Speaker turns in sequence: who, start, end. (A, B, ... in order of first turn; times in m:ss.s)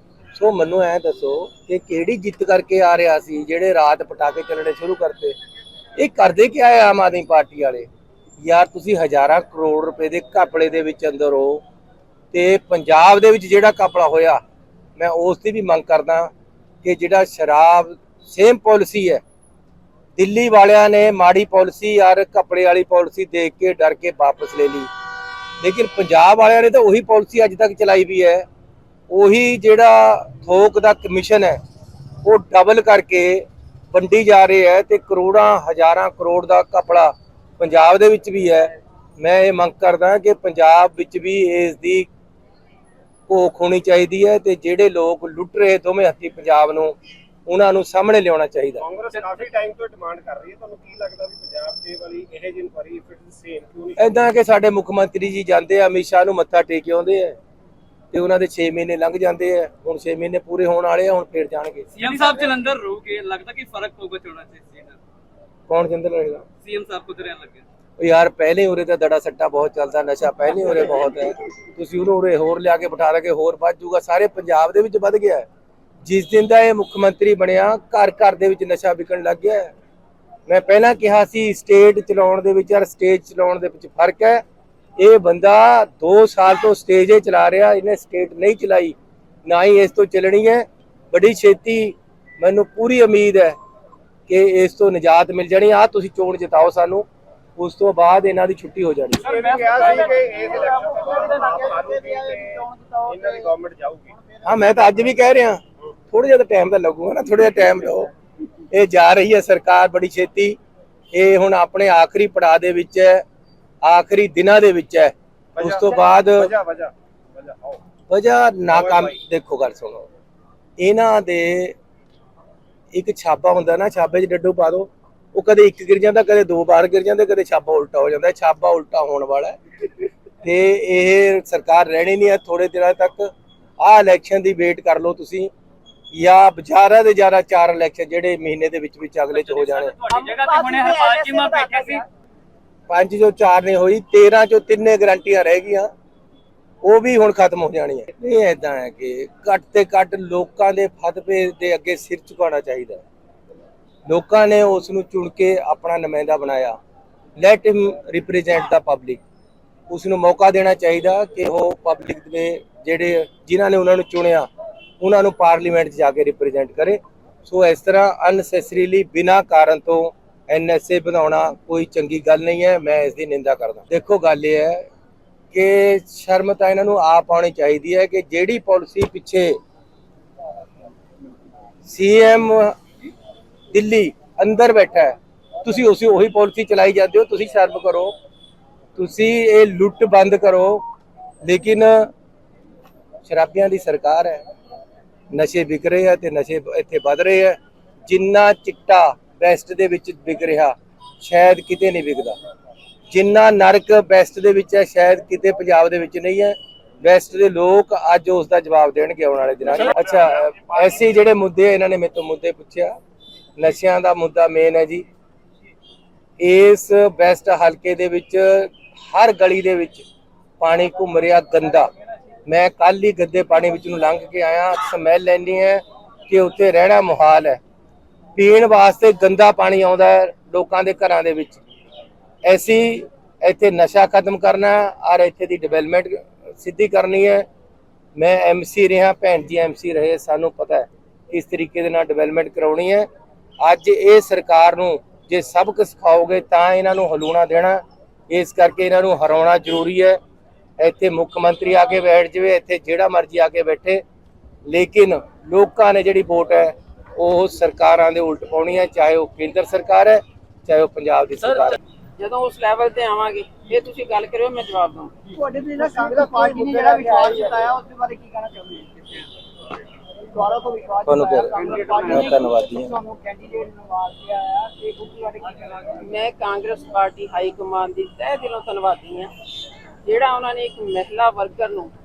0:00.3-0:05.4 A
0:06.0-0:07.9 A
0:08.4-0:11.6 A
0:12.3-0:14.4 A
0:15.0-0:16.3 A
0:16.8-0:19.2 A
0:20.2-0:24.9 A
0:25.6-0:28.5 A
0:29.1-0:31.6 A
0:32.2-0:42.1 A
0:43.3-0:47.0 A
0:47.5-0:48.8 A
0:48.8-0:54.2 B
0:54.0-0:57.4 A
0:58.1-1:01.9 A
1:02.0-1:05.0 C
1:05.7-1:06.4 A
1:06.6-1:07.6 C
1:08.0-1:15.5 A
1:16.0-1:19.7 A
1:20.5-1:24.4 A
1:25.0-1:33.6 A
1:34.3-1:37.1 A
1:37.6-1:39.3 A
1:39.2-1:44.1 B
1:39.6-1:43.5 D
1:44.4-1:48.1 A
1:48.7-1:50.6 A
1:51.1-1:53.2 A
1:53.8-1:56.5 A
1:55.6-1:57.8 B
1:58.1-2:00.1 A
1:58.7-1:59.2 B
2:00.8-2:01.8 A
2:02.9-2:15.5 A
2:16.1-2:20.0 A
2:19.3-2:22.0 C
2:20.1-2:22.0 D
2:22.9-2:25.9 A
2:26.8-2:33.0 A
2:34.1-2:36.8 A
2:37.4-2:39.2 A
2:39.9-2:44.5 A
2:45.0-2:54.9 A
2:55.5-2:59.6 A
3:01.8-3:02.8 A
3:03.7-3:08.1 A
3:09.0-3:10.8 A
3:11.4-3:12.1 A
3:13.2-3:14.4 A
3:15.3-3:22.4 A
3:23.1-3:33.0 A
3:33.6-3:35.0 A
3:36.4-3:40.1 A
3:40.6-3:41.9 A
3:42.5-3:47.6 A
3:48.4-3:51.6 A
3:52.4-3:57.5 A
3:58.2-4:03.1 A
4:03.6-4:10.2 A
4:10.8-4:14.0 A
4:14.7-4:21.8 A
4:22.2-4:25.2 E
4:25.3-4:29.2 D
4:30.3-4:36.0 D
4:31.1-4:33.0 A
4:35.9-4:39.3 E
4:40.0-4:41.9 E